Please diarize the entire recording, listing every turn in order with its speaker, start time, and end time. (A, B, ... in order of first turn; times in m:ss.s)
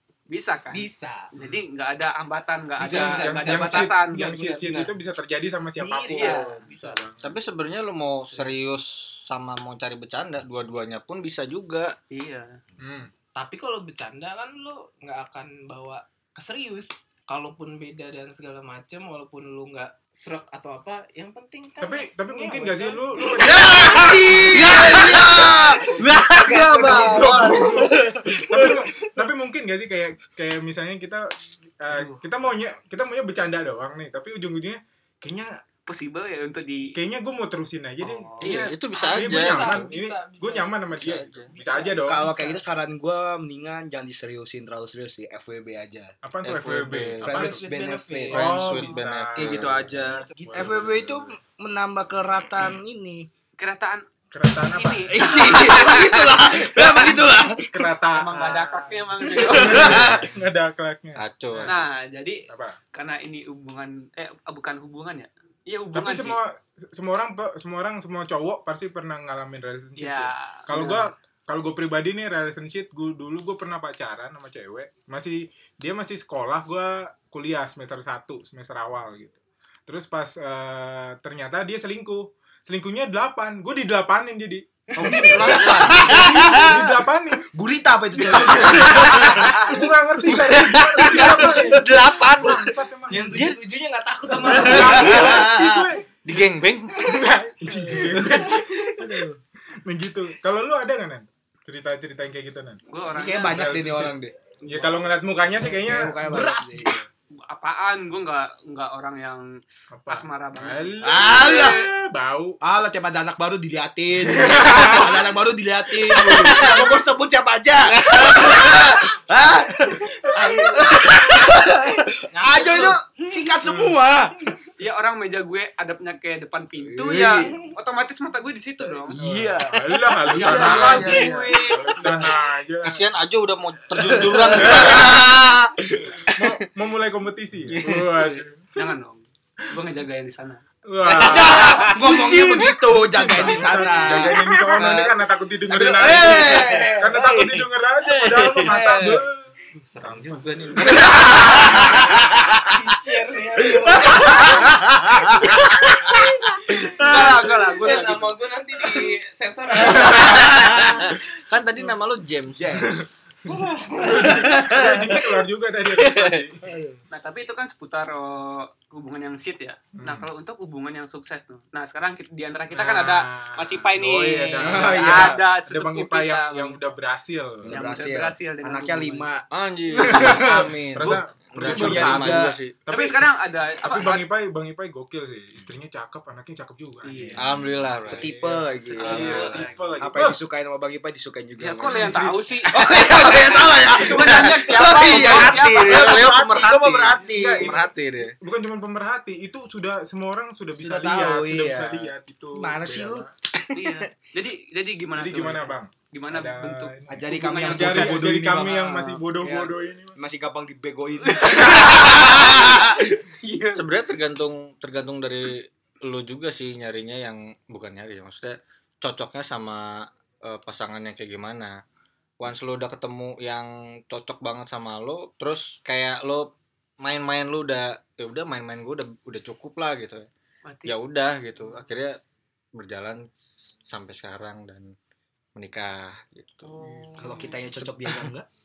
0:00.3-0:04.5 A
0:00.7-0:01.3 B
0:01.4-0:01.6 C
0:02.8-0:04.9 B
0:02.8-0:07.3 C
0:05.8-0:07.0 B
0:06.1-0:06.7 A
0:07.2-0:11.9 D
0:08.2-0:08.6 B
0:12.1-0:12.6 A
0:12.8-0:13.1 C
0:13.3-0:28.7 B
0:21.8-0:24.8 C
0:23.4-0:28.7 E
0:24.4-0:26.9 D
0:25.7-0:26.1 C
0:26.6-0:35.6 C
0:31.9-0:32.2 A
0:35.9-0:36.9 A
0:36.9-0:42.4 C
0:38.0-0:38.6 A
0:38.4-0:39.9 D
0:38.9-0:40.9 B
0:41.0-0:41.5 D
0:41.5-0:42.6 B
0:42.0-0:46.1 E
0:46.2-0:47.6 C
0:46.4-0:47.3 D
0:47.2-0:48.4 E
0:47.2-0:48.9 B
0:48.3-0:49.8 C
0:48.3-0:49.9 D
0:49.4-0:53.3 E
0:50.1-0:50.8 B
0:50.4-0:51.3 C
0:53.6-0:54.0 A
0:54.3-0:55.3 C
0:54.7-0:55.8 A
0:55.1-1:00.3 E
0:55.7-0:56.1 D
0:57.7-0:58.5 C
0:58.1-1:00.1 A
0:59.3-1:01.9 C
0:59.9-1:00.2 D
1:01.2-1:01.8 D
1:01.6-1:06.4 A
1:02.5-1:02.8 C
1:05.9-1:27.4 C
1:10.0-1:11.1 A
1:24.9-1:26.5 B
1:25.0-1:29.8 E
1:25.2-1:26.7 D
1:28.2-1:33.4 C
1:28.6-1:29.5 D
1:30.3-1:32.7 D
1:31.1-1:31.8 E
1:33.1-1:35.4 B
1:33.3-1:33.6 D
1:34.4-1:36.0 C
1:34.6-1:35.0 D
1:34.6-1:35.9 E
1:36.2-1:37.1 D
1:36.9-1:39.3 C
1:37.9-1:39.2 B
1:37.9-1:39.2 E
1:39.8-1:42.8 C
1:42.9-1:43.8 A
1:43.1-1:44.3 E
1:43.4-1:47.0 C
1:45.6-1:47.0 E
1:47.4-1:51.5 A
1:49.9-1:52.6 C
1:51.0-1:51.8 E
1:52.6-2:04.4 E
1:54.2-1:55.2 C
1:56.4-1:56.8 C
1:56.5-1:56.8 B
1:58.1-1:58.8 B
1:58.1-1:58.5 D
2:00.3-2:01.2 B
2:02.3-2:03.0 B
2:03.6-2:04.0 C
2:04.8-2:09.2 A
2:06.8-2:07.5 E
2:07.4-2:07.7 B
2:09.1-2:12.2 E
2:09.2-2:13.1 C
2:10.4-2:12.3 B
2:10.4-2:11.6 A
2:12.8-2:15.6 D
2:13.9-2:16.2 E
2:14.6-2:15.1 C
2:16.3-2:18.6 C
2:17.7-2:18.0 D
2:18.2-2:20.6 A
2:20.8-2:29.4 C
2:21.1-2:24.9 E
2:21.3-2:21.7 D
2:23.9-2:25.2 B
2:25.7-2:27.1 E
2:25.7-2:27.1 B
2:27.2-2:28.8 D
2:28.6-2:29.2 B
2:28.6-2:29.1 E
2:29.8-2:34.9 B
2:30.0-2:30.9 C
2:31.0-2:32.6 E
2:33.7-2:36.3 E
2:36.7-2:41.1 B
2:37.0-2:38.4 A
2:39.8-2:43.0 D
2:39.9-2:41.1 E
2:42.6-2:43.1 E
2:42.9-2:46.7 C
2:43.5-2:44.5 B
2:44.1-2:45.2 E
2:46.0-2:46.4 D
2:46.6-2:47.0 E
2:47.1-2:56.8 A
2:49.9-2:50.3 C
2:52.7-2:57.7 C
2:54.6-2:55.4 E
2:57.6-3:00.7 E
2:57.7-2:59.3 A
2:59.5-3:02.7 D
3:00.1-3:10.4 C
3:01.6-3:02.6 E
3:02.9-3:04.3 A
3:07.0-3:07.4 A
3:07.1-3:07.4 E
3:07.4-3:08.3 D
3:08.0-3:17.8 E
3:09.0-3:09.7 D
3:09.0-3:09.8 A
3:11.6-3:12.7 A
3:11.8-3:12.5 C
3:13.1-3:18.3 D
3:13.9-3:16.3 A
3:17.2-3:23.3 C
3:20.8-3:23.2 E
3:23.7-3:29.1 A
3:23.8-3:24.0 D
3:25.1-3:30.2 C
3:27.1-3:32.9 E
3:31.2-3:32.4 A
3:32.0-3:32.7 D
3:33.4-3:33.8 A
3:33.7-3:41.8 D
3:42.4-3:50.3 D
3:50.6-3:50.9 A
3:50.8-3:52.2 D
3:52.7-3:53.3 D
3:53.9-3:54.9 D
3:55.6-3:56.7 D
3:56.6-3:57.6 A
3:56.8-3:57.4 C
3:57.2-3:58.5 E
3:57.8-3:58.2 D